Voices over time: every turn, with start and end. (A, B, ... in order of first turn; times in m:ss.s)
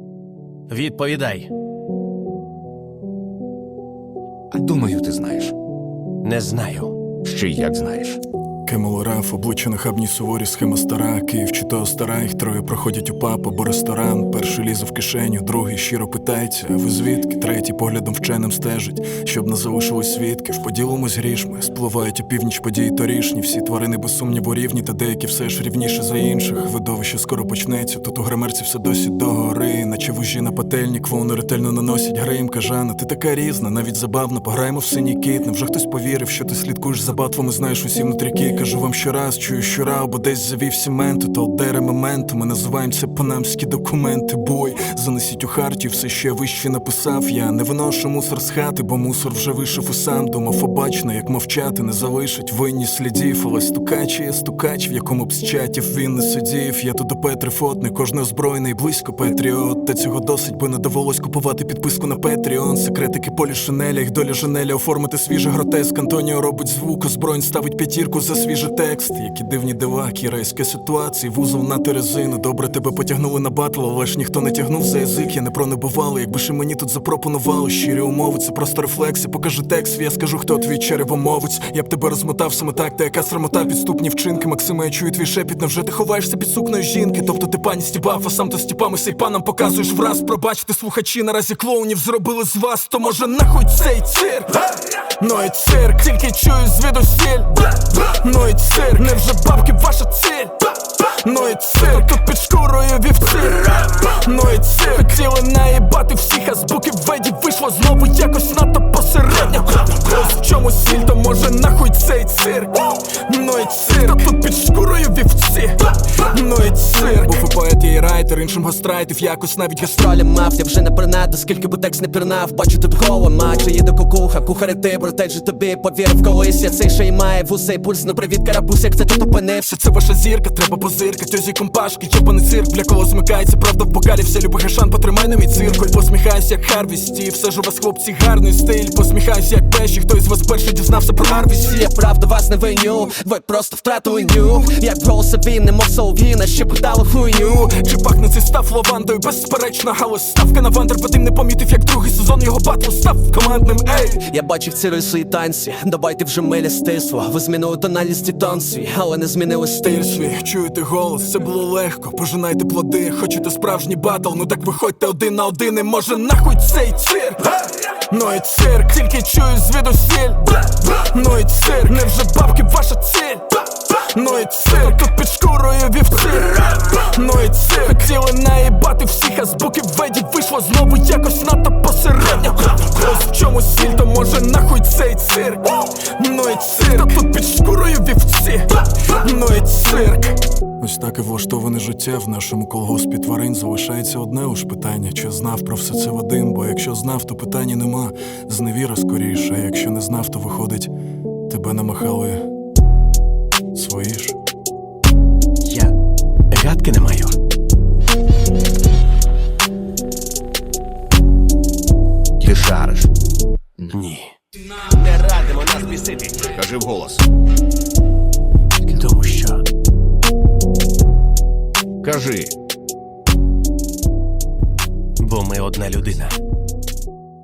0:00.7-0:01.5 A
0:04.5-0:05.5 B
0:06.2-0:07.0 A
0:07.2-0:08.2 B
0:08.7-1:34.6 C
1:35.2-2:00.2 C
2:00.5-2:09.0 D
2:09.6-2:21.9 C
2:22.1-2:27.1 D
2:27.3-2:34.3 C
2:34.4-2:39.8 D
2:39.8-3:20.9 C
3:21.5-3:22.5 C
3:23.7-3:24.4 C
3:25.6-3:25.9 A
3:26.5-3:27.4 A
3:32.4-3:33.1 B
3:33.9-3:34.3 A
3:34.9-3:36.4 A
3:36.5-3:37.2 B
3:38.8-3:39.7 A
3:42.0-3:42.5 B
3:45.2-3:46.4 A